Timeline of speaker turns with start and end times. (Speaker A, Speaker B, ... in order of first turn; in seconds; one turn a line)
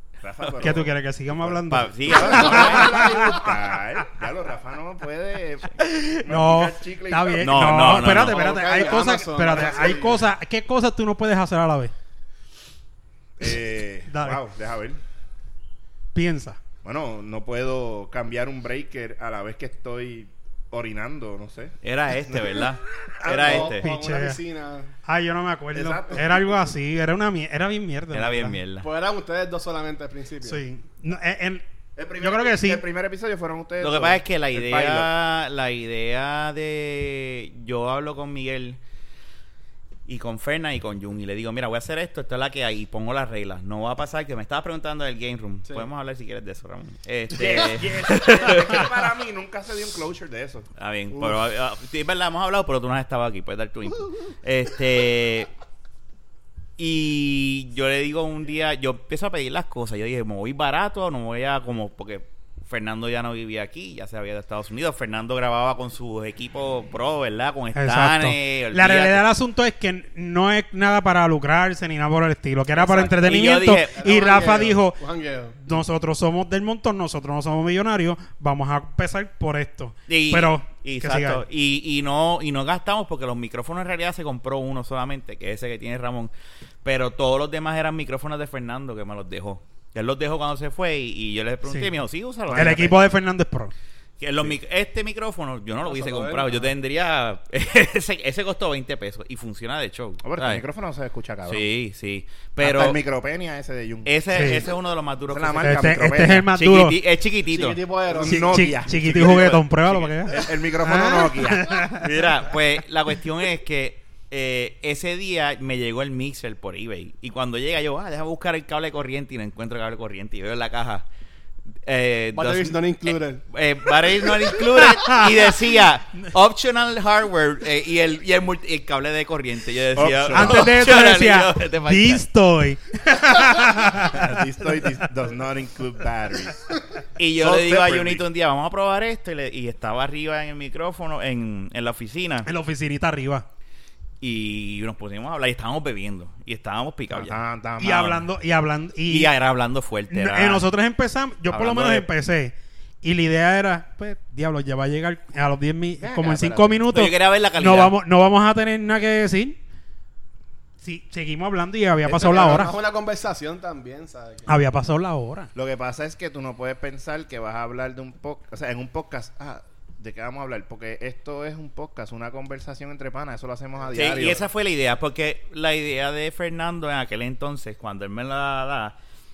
Speaker A: 0.2-8.2
Speaker B: 0.6-3.5
Speaker C: 1.7-3.0
Speaker B: 5.8-11.9
Speaker C: 7.4-8.4
Speaker D: 8.1-10.2
Speaker A: 9.5-10.2
Speaker A: 13.4-15.0
Speaker B: 14.1-14.4
Speaker B: 16.1-16.6
Speaker A: 16.8-22.6
Speaker C: 21.8-23.9
Speaker A: 23.2-23.7
Speaker D: 23.3-24.9
Speaker B: 23.3-24.4
Speaker B: 25.1-28.6
Speaker A: 25.7-26.6
Speaker C: 28.1-28.9
Speaker D: 28.8-30.6
Speaker B: 30.4-31.6
Speaker A: 32.0-35.1
Speaker B: 32.2-32.8
Speaker C: 33.8-38.8
Speaker C: 40.1-48.9
Speaker A: 47.3-51.4
Speaker C: 50.8-55.5
Speaker C: 56.8-69.2
Speaker B: 67.8-75.0
Speaker C: 72.8-74.0
Speaker D: 74.0-75.5
Speaker B: 75.6-81.4
Speaker C: 80.1-86.3
Speaker C: 86.8-93.0
Speaker B: 91.6-91.9
Speaker A: 92.5-92.9
Speaker B: 92.5-93.7
Speaker C: 94.2-100.6
Speaker D: 95.8-96.7
Speaker A: 100.2-101.7
Speaker C: 101.5-103.0
Speaker A: 102.6-104.7
Speaker C: 104.0-105.9
Speaker B: 104.3-104.6
Speaker A: 105.3-106.5
Speaker B: 105.6-107.0
Speaker C: 106.5-107.8
Speaker D: 107.5-108.7
Speaker A: 108.1-109.7
Speaker B: 108.2-112.1
Speaker C: 109.0-110.5
Speaker A: 110.3-111.9
Speaker C: 111.9-121.0
Speaker C: 121.8-132.2
Speaker D: 122.3-123.4
Speaker B: 124.6-125.5
Speaker A: 129.9-130.9
Speaker B: 130.3-134.8
Speaker A: 133.9-136.6
Speaker C: 137.2-142.5
Speaker A: 137.4-138.2
Speaker B: 142.5-143.5
Speaker C: 144.2-147.4
Speaker A: 147.1-148.3
Speaker B: 147.8-149.3
Speaker C: 149.1-150.7
Speaker B: 150.1-159.6
Speaker A: 151.5-152.1
Speaker A: 156.0-156.8
Speaker C: 156.9-157.9
Speaker B: 160.8-162.8
Speaker A: 162.1-162.7
Speaker D: 162.2-164.5
Speaker B: 164.5-165.5
Speaker A: 165.6-174.5
Speaker C: 173.9-179.0